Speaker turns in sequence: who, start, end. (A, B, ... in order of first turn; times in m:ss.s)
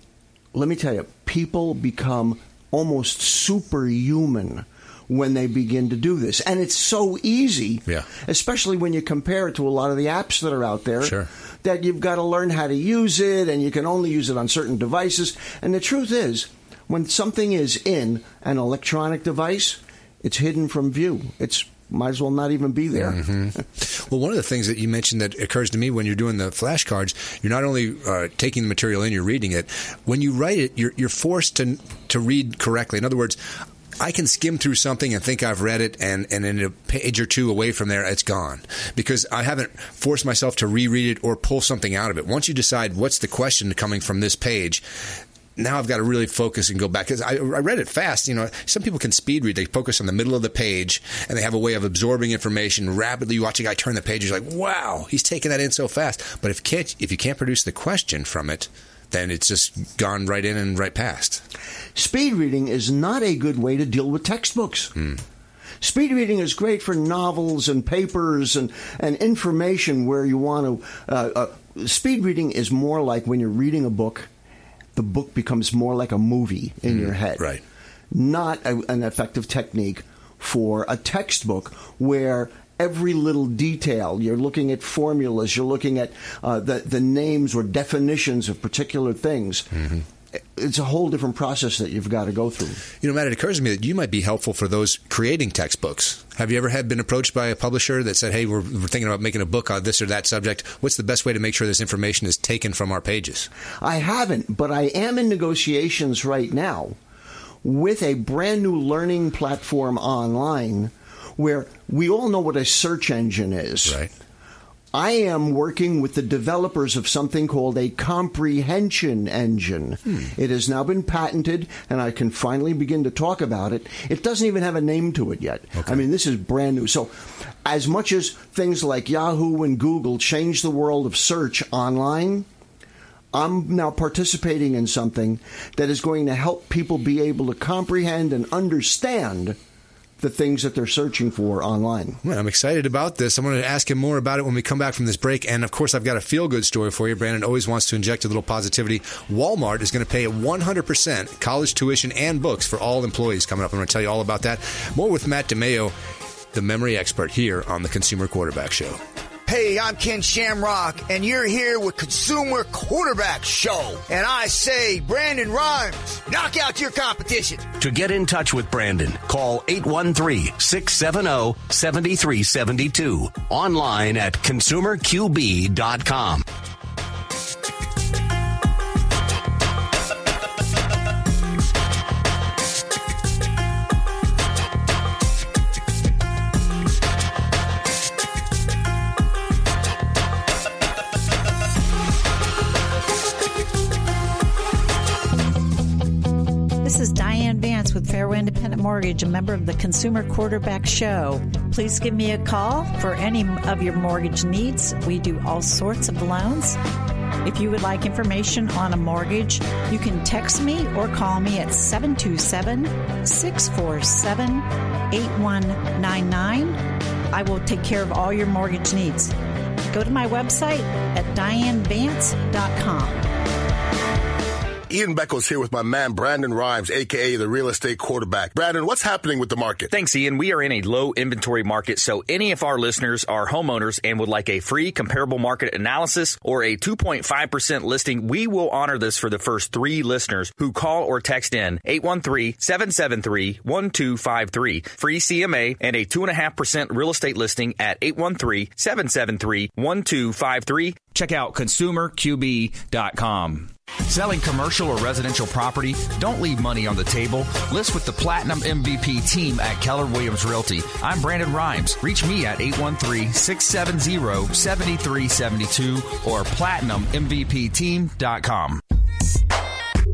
0:00.5-0:23.3 A
0:11.0-0:11.3 B
0:23.0-0:33.4 B
0:34.0-0:44.8 B
0:45.6-1:01.4 B
1:02.0-1:04.9 A
1:05.8-1:14.3 A
1:15.0-1:17.6 A
1:16.9-1:17.6 B
1:18.1-1:29.7 A
1:29.8-1:30.0 B
1:30.6-1:32.8 A
1:33.0-1:43.5 B
1:43.8-1:47.0 A
1:47.6-1:54.0 A
1:54.9-2:12.5 A
2:05.8-2:06.0 B
2:13.3-2:19.6 A
2:20.2-2:22.2 A
2:22.2-2:35.9 B
2:36.5-2:39.0 B
2:39.5-2:47.7 C
2:47.8-2:56.4 D
3:16.8-3:26.8 E
3:27.4-3:39.3 E
3:39.9-3:43.2 E
3:44.9-3:49.9 F
3:49.9-4:28.8 G